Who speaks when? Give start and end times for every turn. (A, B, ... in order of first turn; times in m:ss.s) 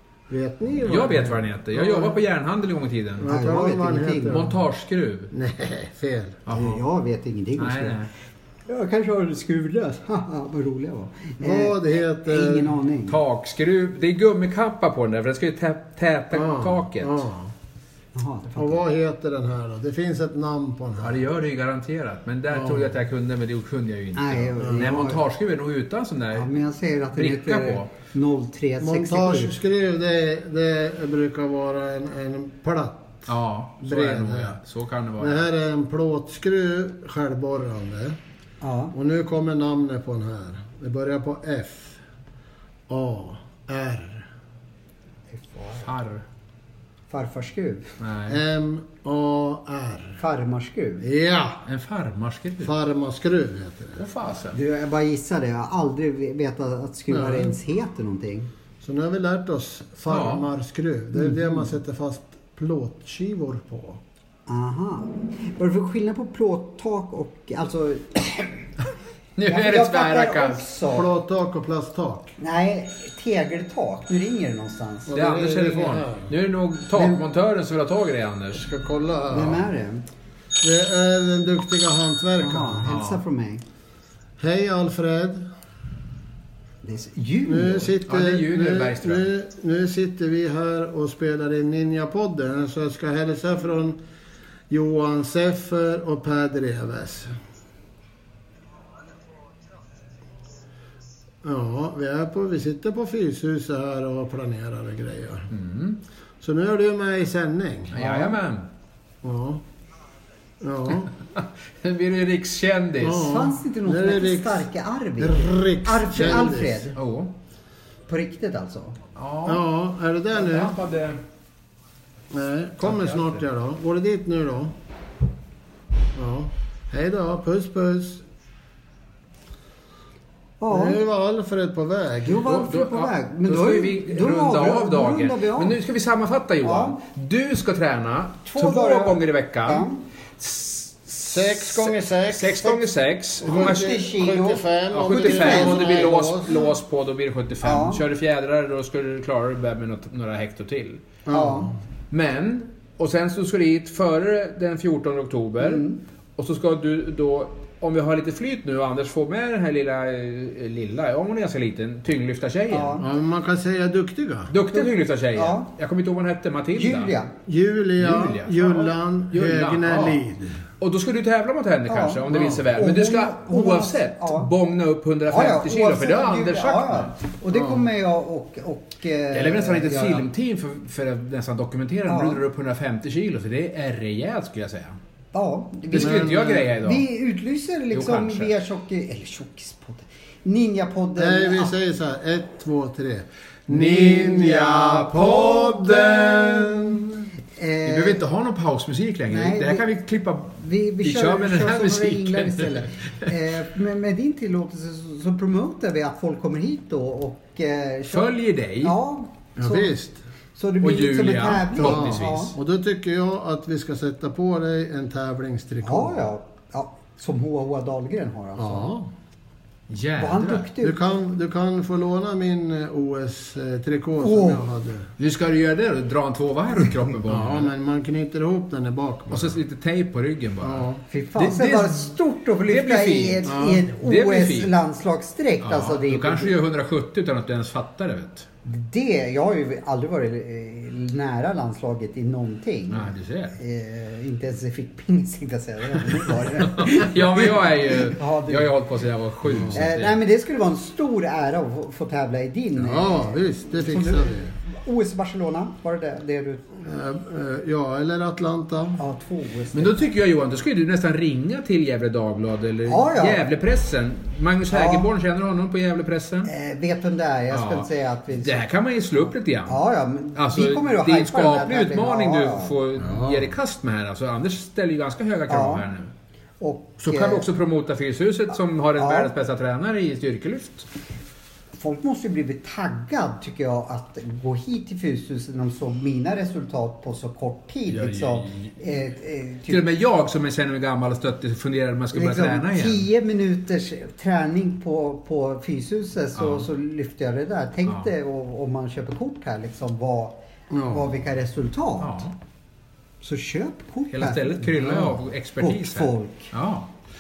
0:00.3-0:02.2 A
0:00.8-0:03.3 B
0:03.2-0:04.6 A
0:03.3-0:04.4 C
0:04.2-0:05.3 B
0:05.3-0:06.4 A
0:06.4-0:06.8 B
0:06.5-0:08.0 C
0:07.6-0:08.1 B
0:08.7-0:13.2 C
0:11.4-0:12.7 A
0:13.1-0:17.2 B
0:16.3-0:17.5 A
0:18.1-0:18.8 C
0:18.6-0:21.2 A
0:21.0-0:26.5 B
0:22.5-0:22.9 A
0:24.2-0:25.2 C
0:24.6-0:24.9 A
0:26.3-0:29.6 C
0:27.1-0:27.9 B
0:28.8-0:33.3 A
0:33.3-0:35.4 B
0:33.8-0:34.6 A
0:35.2-0:38.2 A
0:38.6-0:38.9 C
0:38.9-0:42.0 A
0:42.9-0:44.3 A
0:45.4-0:45.8 C
0:45.8-0:46.2 B
0:47.1-0:47.9 C
0:48.0-0:48.4 B
0:48.3-0:50.2 A
0:50.2-0:51.1 C
0:51.0-0:51.6 A
0:51.6-0:52.7 B
0:52.6-0:54.0 A
0:54.0-0:54.6 B
0:54.5-0:58.5 C
0:57.1-0:57.5 A
0:58.8-1:04.0 A
1:00.1-1:00.4 B
1:01.1-1:01.6 C
1:04.5-1:08.6 C
1:09.4-1:10.6 B
1:09.4-1:11.1 C
1:10.9-1:12.3 A
1:12.4-1:15.2 C
1:15.1-1:16.3 A
1:15.1-1:18.6 B
1:16.9-1:17.2 A
1:18.6-1:19.6 A
1:19.3-1:20.0 C
1:20.6-1:22.8 A
1:22.4-1:23.6 C
1:22.8-1:23.2 B
1:24.4-1:25.4 A
1:26.8-1:27.9 C
1:27.4-1:34.0 A
1:28.0-1:29.3 B
1:34.7-1:37.3 A
1:41.4-1:45.5 A
1:45.5-1:46.0 B
1:46.4-1:48.3 A
1:47.9-1:48.6 B
1:49.2-1:49.6 A
1:50.6-1:51.1 A
1:51.4-1:53.3 B
1:53.0-1:54.7 A
1:53.2-1:56.9 C
1:55.2-1:56.9 A
1:56.9-1:57.3 B
1:58.1-1:59.0 C
1:59.2-1:59.6 B
1:59.4-2:00.8 A
2:00.3-2:01.2 B
2:02.3-2:04.7 A
2:02.8-2:03.4 B
2:06.1-2:08.2 A
2:10.6-2:11.0 C
2:10.7-2:12.5 A
2:12.2-2:15.8 C
2:12.3-2:19.9 B
2:16.6-2:17.0 C
2:18.5-2:20.0 C
2:20.4-2:24.0 B
2:21.2-2:22.8 A
2:23.4-2:26.2 C
2:23.4-2:26.7 A
2:24.9-2:31.1 B
2:27.6-2:28.0 C
2:31.2-2:31.8 A
2:31.3-2:31.7 C
2:32.1-2:43.0 B
2:35.6-2:36.0 C
2:42.7-2:43.0 C
2:43.0-2:44.5 A
2:44.5-2:47.1 B
2:44.7-2:45.7 C
2:46.7-2:47.3 C
2:47.4-2:50.6 A
2:48.0-2:50.2 B
2:50.8-2:57.2 B
2:51.9-2:54.5 C
2:52.3-2:52.7 A
2:55.3-3:00.2 C
2:57.5-2:57.9 A
2:59.3-3:05.0 B
3:02.1-3:02.4 C
3:05.3-3:11.7 C
3:05.9-3:07.0 B
3:05.9-3:06.5 A
3:07.9-3:08.5 B
3:11.2-3:17.3 A
3:13.7-3:16.7 C
3:17.6-3:18.2 C
3:17.8-3:23.3 B
3:19.3-3:19.8 C
3:20.6-3:29.9 C
3:28.1-3:28.9 B
3:29.6-3:30.2 A
3:30.5-3:32.5 C
3:30.8-3:32.5 B
3:31.8-3:36.3 A
3:35.8-3:38.9 C
3:38.6-3:39.1 A
3:39.9-3:40.7 B
3:40.2-3:41.1 C
3:40.8-3:45.1 A
3:44.2-3:44.6 C
3:45.2-3:47.7 B
3:47.3-3:49.6 A
3:49.3-3:52.1 B
3:50.6-3:51.0 A
3:51.1-3:56.6 C
3:52.7-3:54.7 B
3:53.5-3:53.8 A
3:55.6-3:58.5 B
3:58.6-4:08.7 C
4:02.9-4:03.6 B
4:06.6-4:10.2 B
4:09.5-4:09.8 A
4:09.7-4:16.6 C
4:12.8-4:14.5 A
4:16.7-4:19.0 A
4:19.0-4:20.1 C
4:19.7-4:26.5 B
4:22.8-4:23.4 C
4:24.7-4:25.0 C
4:26.5-4:28.6 C
4:27.5-4:29.8 B
4:29.7-4:32.8 C
4:30.3-4:36.1 B
4:33.0-4:33.5 A
4:35.5-4:35.8 C
4:36.6-4:37.4 C
4:37.0-4:40.9 B
4:39.0-4:39.3 C
4:41.8-4:49.8 C
4:47.9-4:48.7 B
4:49.7-4:53.1 B
4:52.1-5:02.3 C
4:56.4-4:56.7 B
5:00.7-5:01.1 A
5:02.0-5:02.3 B
5:03.2-5:06.5 C
5:04.1-5:06.9 B